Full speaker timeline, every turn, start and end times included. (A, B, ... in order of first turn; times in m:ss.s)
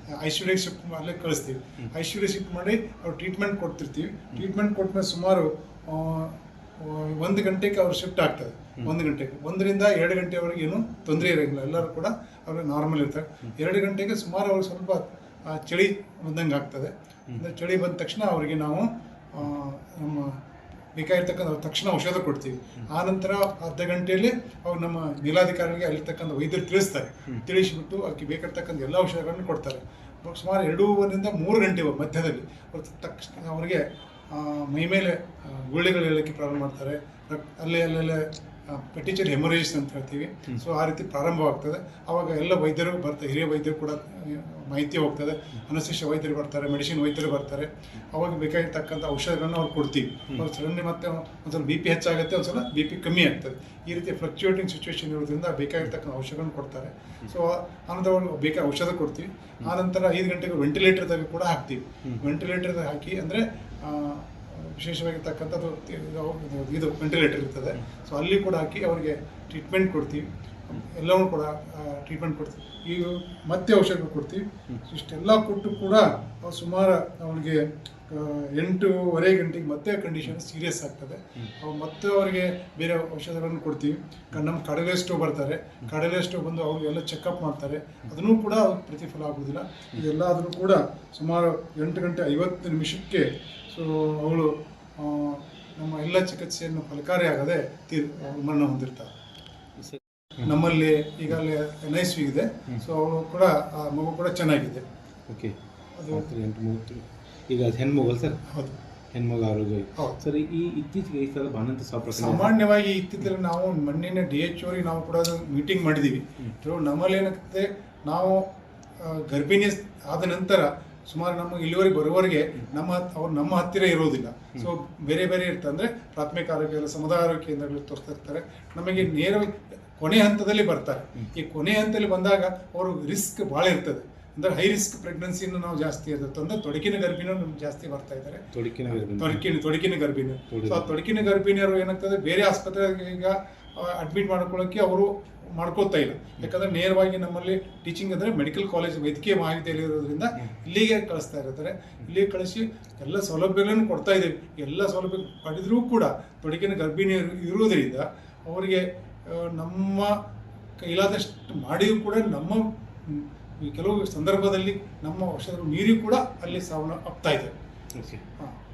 0:00.2-0:20.4 A
0:21.0-1:39.1 A
1:39.8-1:40.5 B
1:40.4-1:44.8 A
1:45.3-1:45.5 B
1:46.0-1:46.3 A
1:46.1-1:48.4 B
1:48.5-1:48.8 A
1:49.1-1:52.5 B
1:52.1-1:58.4 A
1:59.0-2:40.2 A
2:18.6-2:19.4 B
2:20.5-2:20.9 B
2:40.8-2:47.5 A
2:48.0-2:48.2 B